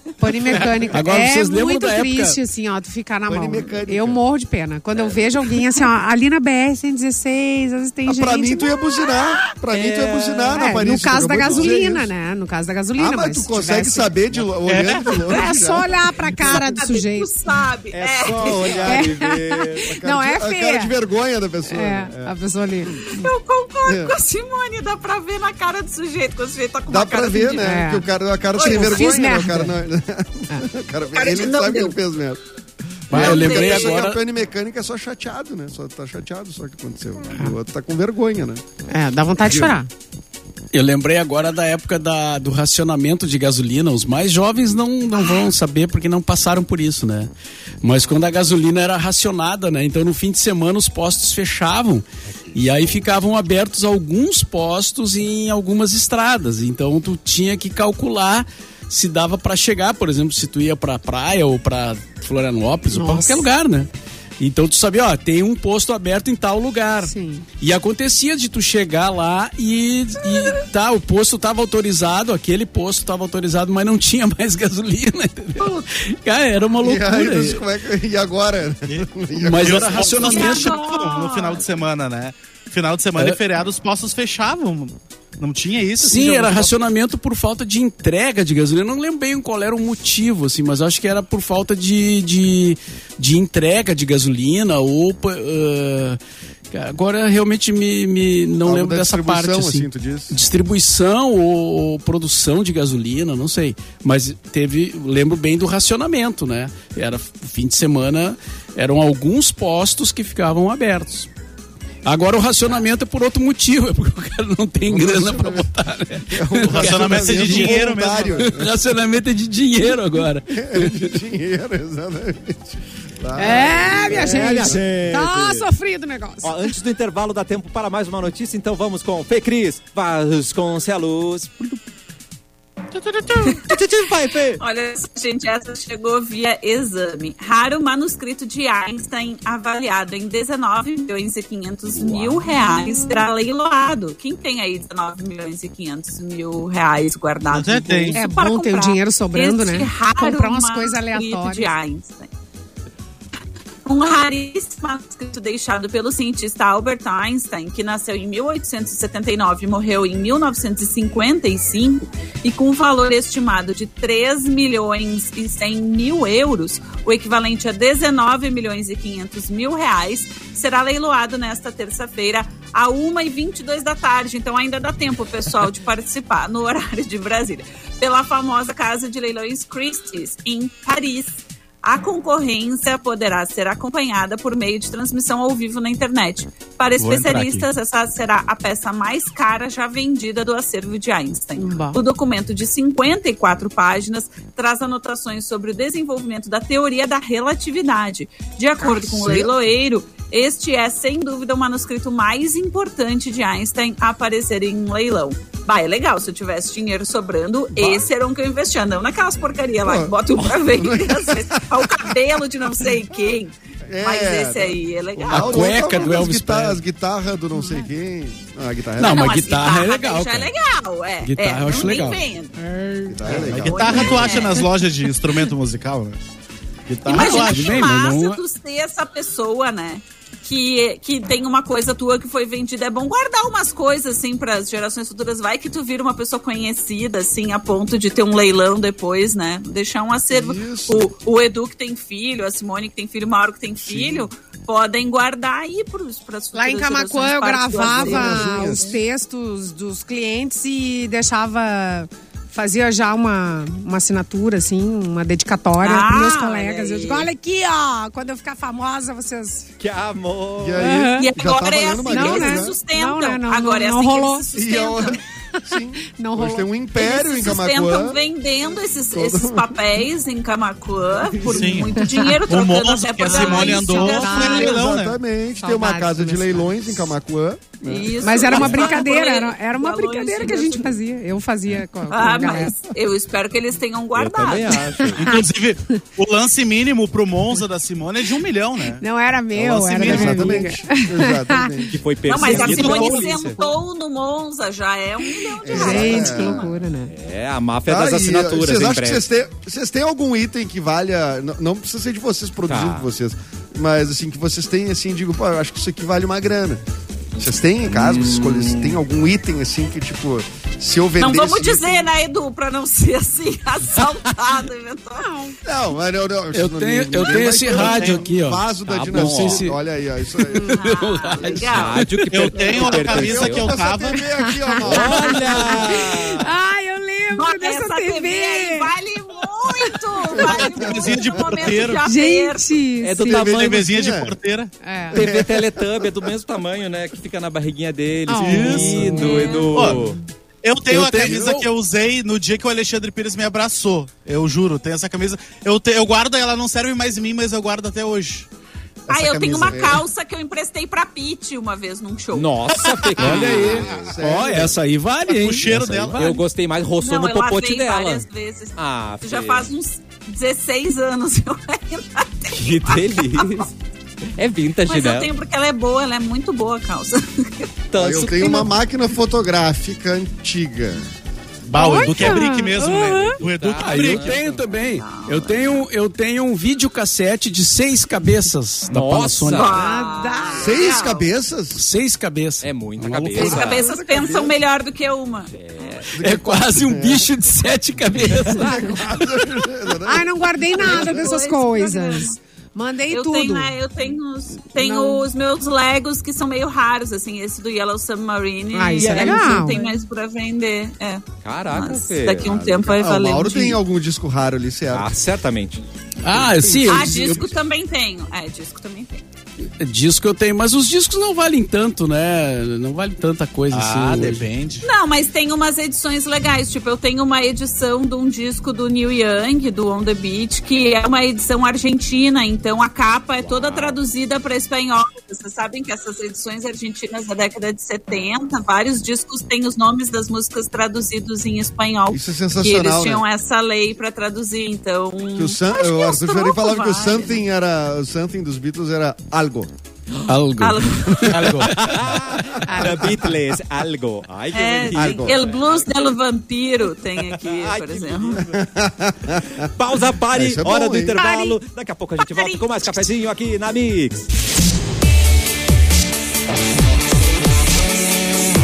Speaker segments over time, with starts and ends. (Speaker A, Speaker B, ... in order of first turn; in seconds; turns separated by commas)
Speaker A: 0.2-8.7, Speaker B: 0.5-0.9, Speaker C: 0.9-2.4, Speaker B: 3.3-4.2, Speaker B: 8.1-12.1, Speaker D: 9.7-10.7, Speaker A: 10.5-14.2, Speaker D: 11.4-11.8, Speaker B: 13.0-15.9, Speaker E: 14.6-15.2, Speaker A: 15.3-17.3, Speaker F: 15.3-15.6, Speaker F: 16.4-18.7, Speaker D: 17.9-19.9, Speaker B: 18.3-23.1, Speaker A: 18.7-20.9, Speaker A: 21.7-23.1, Speaker F: 23.1-27.7, Speaker B: 23.9-24.1, Speaker B: 26.9-32.4, Speaker A: 27.5-28.1, Speaker F: 28.6-29.1, Speaker A: 28.6-29.8, Speaker F: 31.1-32.0, Speaker B: 33.1-38.6, Speaker C: 33.1-34.2, Speaker F: 33.1-34.0, Speaker A: 38.9-39.9, Speaker B: 39.4-39.8, Speaker C: 40.7-47.3, Speaker C: 47.8-77.6, Speaker A: 62.9-63.5, Speaker A: 67.0-67.5, Speaker B: 76.8-80.5, Speaker E: 78.9-86.8, Speaker C: 79.4-80.8, Speaker F: 80.3-81.7, Speaker C: 86.0-96.2, Speaker C: 96.7-111.3, Speaker B: 98.6-100.4, Speaker C: 112.0-117.8, Speaker B: 114.9-115.7, Speaker B: 116.3-118.7, Speaker E: 116.6-118.5, Speaker C: 118.4-121.2, Speaker B: 120.5-124.8, Speaker A: 123.4-126.7, Speaker D: 124.1-125.7, Speaker D: 126.4-131.8, Speaker E: 133.0-133.7, Speaker D: 133.3-134.6, Speaker F: 134.6-152.3, Speaker D: 142.0-142.4, Speaker E: 147.5-148.2, Speaker A: 148.2-151.7, Speaker F: 153.9-216.2, Speaker E: 187.0-187.7, Speaker A: 191.6-192.0, Speaker B: 198.8-199.5, Speaker B: 207.8-208.0, Speaker B: 209.8-212.2, Speaker B: 213.9-219.4, Speaker C: 215.3-216.8, Speaker C: 219.0-220.5, Speaker F: 219.0-222.6, Speaker C: 221.2-222.2, Speaker A: 222.6-223.3, Speaker B: 223.1-224.3, Speaker E: 223.3-226.2, Speaker F: 223.7-224.7, Speaker E: 226.9-227.9, Speaker C: 227.1-228.4, Speaker F: 227.1-249.0, Speaker B: 240.3-241.1, Speaker B: 243.8-244.3, Speaker A: 246.5-259.7, Speaker B: 248.0-249.0, Speaker F: 255.8-257.3, Speaker D: 259.8-260.9, Speaker B: 260.6-262.8, Speaker A: 260.8-261.3, Speaker F: 261.1-265.2, Speaker A: 262.1-264.5, Speaker B: 264.5-268.2, Speaker A: 265.6-266.7, Speaker F: 267.0-274.7, Speaker B: 269.1-269.8, Speaker E: 271.4-275.2, Speaker A: 272.0-272.4, Speaker A: 273.2-274.8, Speaker B: 274.3-278.9, Speaker A: 275.6-277.1, Speaker F: 277.9-281.0, Speaker A: 278.2-282.8, Speaker F: 282.1-284.9, Speaker D: 284.1-285.3, Speaker A: 285.0-285.4, Speaker E: 285.2-290.7, Speaker A: 289.0-293.7, Speaker B: 290.0-292.0, Speaker D: 291.9-293.6, Speaker F: 292.3-296.7, Speaker B: 292.6-292.9, Speaker A: 295.2-297.1, Speaker B: 295.6-296.7, Speaker D: 297.1-299.2, Speaker B: 297.9-306.8, Speaker D: 302.7-303.1, Speaker B: 307.4-312.1, Speaker D: 307.9-309.0, Speaker F: 311.2-315.4, Speaker A: 315.2-315.6, Speaker B: 315.6-320.8, Speaker C: 316.5-319.8, Speaker D: 318.9-319.7, Speaker C: 320.6-322.6, Speaker F: 320.7-322.1, Speaker D: 321.6-323.8, Speaker E: 322.3-324.2, Speaker B: 322.7-325.9, Speaker A: 324.2-328.9, Speaker D: 324.8-326.5, Speaker F: 327.3-332.8, Speaker A: 329.8-330.9, Speaker B: 330.3-331.6, Speaker E: 330.8-332.1, Speaker A: 332.0-333.5, Speaker D: 333.0-333.9, Speaker B: 333.3-334.4, Speaker E: 333.4-334.7, Speaker A: 334.8-335.3, Speaker D: 335.1-340.2, Speaker B: 335.1-336.3, Speaker A: 338.3-339.6, Speaker E: 338.4-339.2, Speaker C: 338.5-339.0, Speaker F: 339.1-339.9, Speaker E: 339.7-348.5, Speaker C: 340.9-341.7, Speaker B: 349.1-350.0, Speaker F: 349.1-352.5, Speaker D: 352.3-354.8, Speaker E: 352.9-353.8, Speaker C: 353.2-356.4, Speaker B: 353.4-354.8, Speaker E: 355.3-356.4, Speaker D: 355.7-358.2, Speaker F: 357.0-363.7, Speaker D: 358.8-359.7, Speaker D: 362.5-363.7, Speaker D: 364.4-365.3, Speaker F: 364.9-367.7, Speaker D: 367.9-368.7, Speaker B: 367.9-371.1, Speaker E: 371.7-374.4, Speaker A: 371.7-373.4, Speaker D: 373.4-374.6, Speaker C: 373.8-379.7, Speaker F: 374.8-375.8, Speaker D: 378.9-379.8, Speaker F: 379.5-381.3, Speaker A: 379.7-380.9, Speaker B: 380.6-381.8, Speaker C: 381.8-383.7, Speaker D: 382.6-383.9, Speaker F: 383.4-386.0, Speaker B: 383.4-384.6, Speaker D: 385.5-386.1, Speaker B: 386.1-387.4, Speaker C: 386.2-389.0, Speaker B: 388.3-391.3, Speaker A: 388.6-389.0, Speaker A: 389.9-393.7, Speaker F: 390.8-392.4, Speaker F: 393.1-403.8, Speaker A: 394.8-395.2, Speaker A: 398.7-399.8, Speaker D: 398.9-399.9, Speaker D: 401.4-402.5, Speaker B: 402.4-405.1, Speaker D: 404.9-405.8, Speaker C: 406.2-407.5, Speaker B: 406.4-407.1, Speaker F: 406.9-409.2, Speaker C: 409.8-414.5, Speaker E: 413.7-414.9, Speaker F: 414.9-437.4, Speaker D: 423.4-424.0, Speaker B: 432.1-433.2, Speaker B: 435.4-439.7, Speaker C: 440.3-442.2, Speaker F: 440.6-441.6, Speaker D: 441.3-445.9, Speaker B: 442.4-443.1, Speaker A: 442.6-443.3, Speaker F: 444.5-448.4, Speaker B: 444.9-445.4, Speaker D: 447.3-448.6, Speaker B: 448.4-449.7, Speaker D: 449.6-454.3, Speaker B: 450.3-451.2, Speaker A: 451.2-451.6, Speaker F: 452.2-453.0